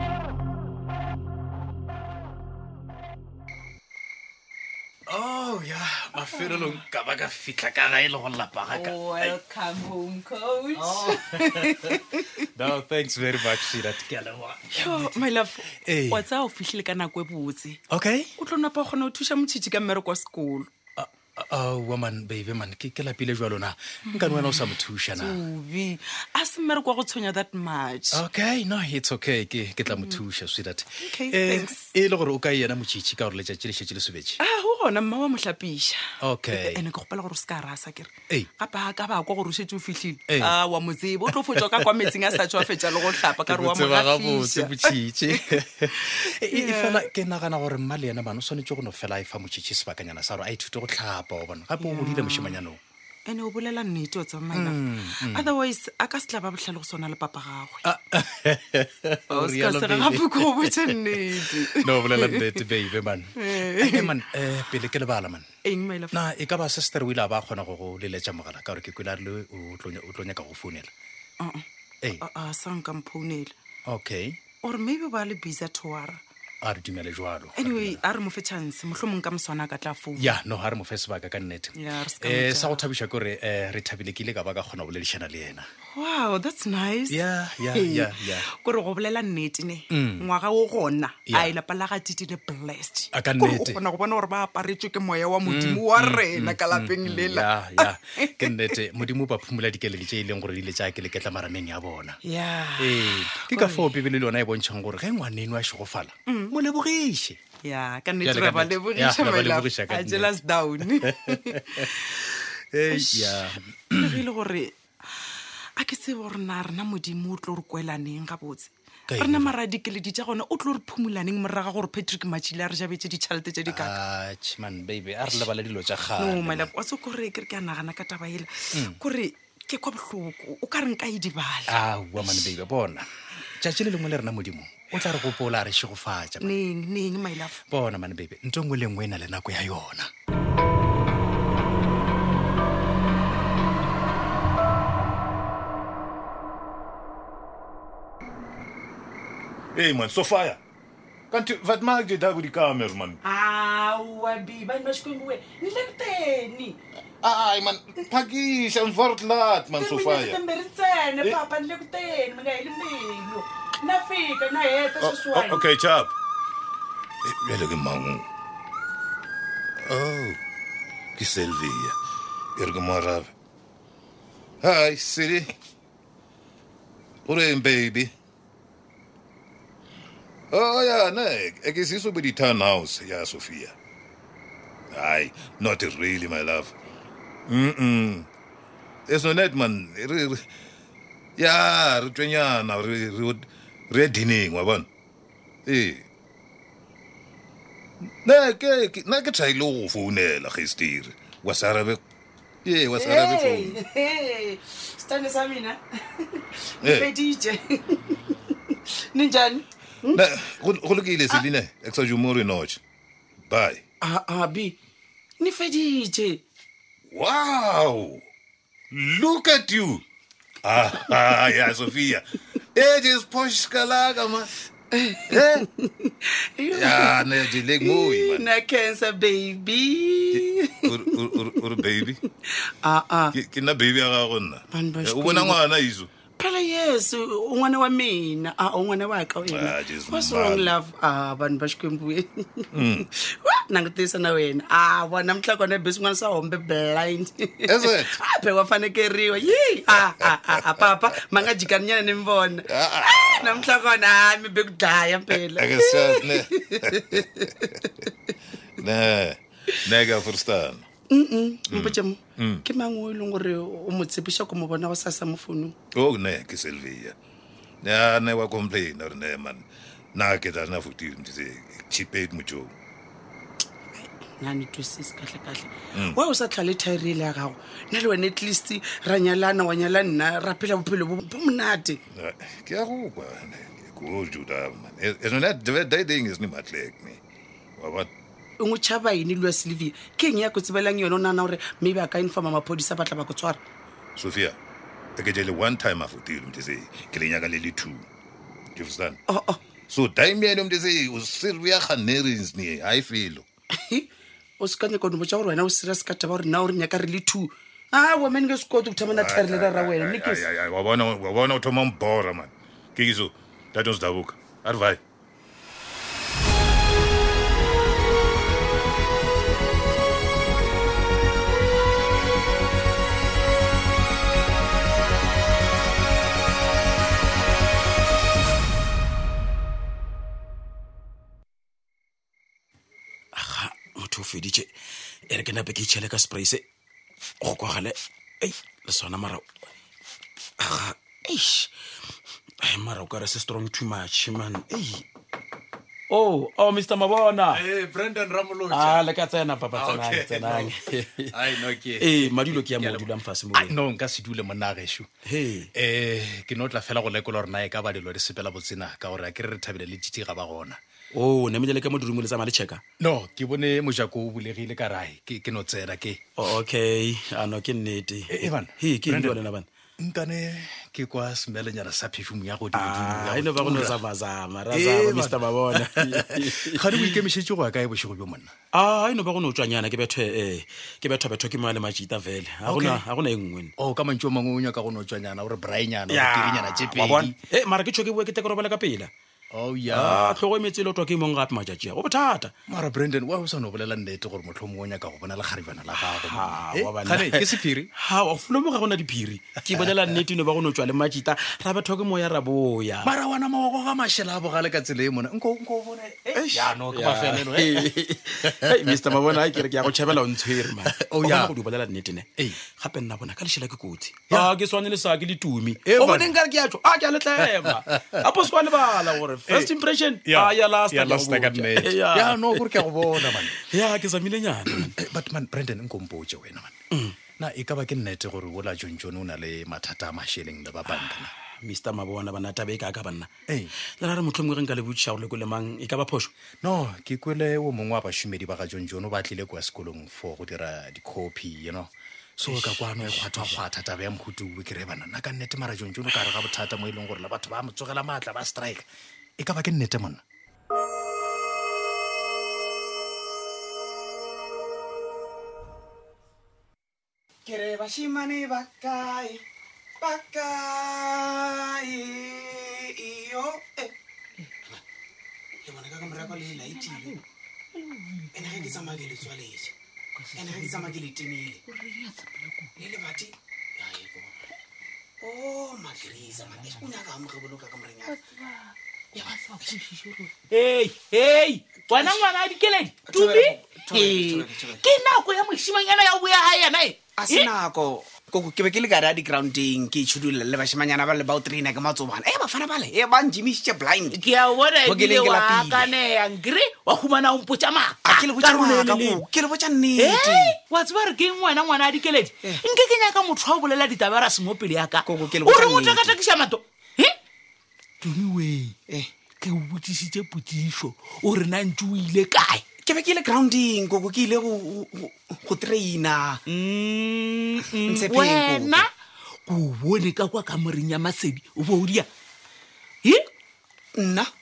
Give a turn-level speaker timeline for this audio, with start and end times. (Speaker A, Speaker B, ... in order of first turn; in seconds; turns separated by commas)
Speaker A: 5.1-9.4, Speaker B: 8.7-12.5, Speaker A: 10.8-16.3, Speaker B: 14.8-17.8, Speaker A: 17.9-18.3, Speaker B: 18.4-20.7, Speaker A: 21.0-25.4, Speaker B: 24.1-24.6, Speaker B: 25.2-28.2, Speaker A: 28.1-34.4, Speaker B: 29.9-30.2, Speaker B: 31.0-31.8, Speaker B: 34.4-36.0, Speaker A: 36.2-36.8, Speaker B: 36.5-47.1, Speaker A: 40.3-40.5, Speaker A: 41.3-42.7, Speaker A: 43.3-52.8, Speaker B: 51.8-52.6, Speaker B: 53.3-57.8, Speaker A: 54.5-55.5, Speaker A: 57.8-65.5, Speaker B: 59.3-62.6, Speaker B: 63.4-64.1, Speaker B: 65.7-66.2, Speaker A: 66.1-70.9, Speaker B: 71.4-71.7, Speaker B: 72.2-73.5, Speaker A: 73.9-74.4, Speaker B: 74.6-76.2, Speaker A: 76.6-78.0, Speaker B: 77.5-80.4, Speaker A: 80.2-85.7, Speaker B: 81.8-82.8, Speaker B: 85.9-98.8, Speaker A: 87.1-88.5, Speaker A: 89.9-90.3, Speaker A: 91.3-91.6, Speaker A: 93.1-93.8, Speaker A: 95.5-102.2, Speaker B: 102.2-103.9, Speaker A: 102.8-107.4, Speaker B: 106.3-106.6, Speaker B: 107.6-113.4, Speaker A: 108.2-110.3, Speaker A: 110.9-112.0, Speaker A: 112.7-114.2, Speaker B: 114.0-114.8, Speaker B: 115.8-123.9, Speaker A: 119.1-119.5, Speaker A: 123.7-126.7, Speaker B: 126.2-131.8, Speaker A: 128.7-129.0, Speaker A: 131.7-136.6, Speaker B: 136.4-137.6, Speaker A: 137.7-140.1, Speaker C: 149.8-150.6, Speaker C: 151.3-153.2, Speaker B: 153.2-156.8, Speaker C: 157.2-160.4, Speaker B: 159.7-165.7, Speaker C: 165.0-166.1, Speaker C: 167.2-168.3, Speaker C: 169.9-170.4, Speaker C: 171.2-172.0, Speaker C: 172.6-173.3, Speaker C: 174.6-175.5, Speaker C: 177.3-178.1, Speaker C: 180.5-183.8, Speaker C: 184.9-186.7, Speaker C: 187.5-188.3, Speaker C: 189.1-190.4, Speaker C: 191.4-194.9, Speaker C: 195.7-196.1, Speaker C: 198.2-202.0, Speaker C: 202.7-203.8, Speaker B: 202.9-210.2, Speaker C: 206.8-207.1, Speaker C: 210.1-212.8, Speaker C: 213.5-213.8, Speaker B: 214.0-214.8, Speaker B: 215.4-216.4, Speaker C: 217.1-218.2, Speaker C: 218.9-220.0, Speaker C: 220.6-224.5, Speaker B: 224.9-231.6, Speaker C: 225.3-225.7, Speaker C: 226.7-228.5, Speaker C: 230.3-232.2, Speaker B: 232.7-233.3, Speaker C: 233.3-236.1, Speaker B: 234.7-235.6, Speaker B: 236.4-258.1, Speaker C: 239.4-240.7, Speaker C: 242.7-243.1, Speaker C: 247.7-248.2, Speaker C: 249.9-250.9, Speaker C: 252.7-253.7, Speaker C: 255.3-257.5, Speaker C: 258.8-260.9, Speaker B: 261.1-265.8, Speaker C: 261.7-262.6, Speaker C: 265.9-267.1, Speaker C: 267.8-272.7, Speaker B: 273.9-282.0, Speaker C: 275.9-276.2, Speaker C: 282.1-287.2, Speaker C: 287.8-288.1, Speaker B: 288.6-293.6, Speaker C: 294.2-294.6, Speaker C: 295.2-298.1, Speaker C: 298.8-299.2, Speaker B: 299.3-299.6, Speaker C: 299.9-303.5, Speaker B: 303.8-304.1, Speaker B: 304.6-310.5, Speaker C: 309.0-315.0, Speaker D: 333.3-334.7, Speaker D: 335.3-336.6, Speaker D: 337.4-339.5, Speaker D: 340.6-341.7, Speaker D: 342.6-345.1, Speaker D: 346.1-347.6, Speaker A: 347.5-349.0, Speaker D: 348.7-353.8, Speaker A: 349.7-350.8, Speaker A: 351.3-355.1, Speaker D: 355.2-355.7, Speaker A: 355.7-360.8, Speaker D: 361.1-362.8, Speaker A: 363.0-366.2, Speaker D: 366.4-369.7, Speaker A: 368.3-369.4, Speaker A: 370.0-374.0, Speaker D: 372.7-377.2, Speaker A: 374.7-378.5, Speaker D: 378.7-383.7, Speaker A: 382.7-383.0, Speaker A: 383.8-387.4, Speaker D: 386.1-389.1, Speaker A: 389.5-390.4, Speaker D: 389.9-392.5, Speaker A: 392.7-397.9, Speaker D: 395.9-403.1, Speaker A: 399.7-400.0, Speaker A: 403.0-407.9, Speaker D: 406.3-412.3, Speaker A: 408.4-409.6, Speaker A: 410.4-411.6, Speaker D: 412.8-424.9, Speaker A: 415.9-416.4, Speaker A: 417.6-418.3, Speaker A: 419.5-419.7, Speaker A: 420.2-423.6, Speaker A: 424.8-426.8, Speaker A: 427.4-431.3, Speaker D: 430.9-433.3, Speaker A: 433.5-433.7, Speaker D: 434.0-436.3, Speaker A: 436.6-448.9, Speaker D: 442.5-443.6, Speaker A: 449.4-450.2, Speaker E: 457.4-459.4, Speaker E: 460.0-463.9, Speaker E: 465.6-467.2, Speaker E: 468.3-469.7, Speaker E: 470.3-471.6, Speaker F: 471.7-472.4, Speaker E: 472.8-474.3, Speaker E: 475.2-478.2, Speaker E: 479.1-479.8, Speaker F: 480.1-487.4, Speaker E: 481.9-482.3, Speaker E: 483.1-484.9, Speaker E: 487.2-494.3, Speaker F: 494.1-499.2, Speaker E: 494.8-495.9, Speaker E: 498.0-500.6, Speaker F: 500.0-507.2, Speaker E: 505.0-506.2, Speaker F: 508.0-508.7, Speaker F: 509.4-512.6, Speaker E: 512.8-516.4, Speaker F: 516.5-518.9, Speaker E: 517.7-518.9, Speaker F: 519.5-522.1, Speaker E: 524.0-524.3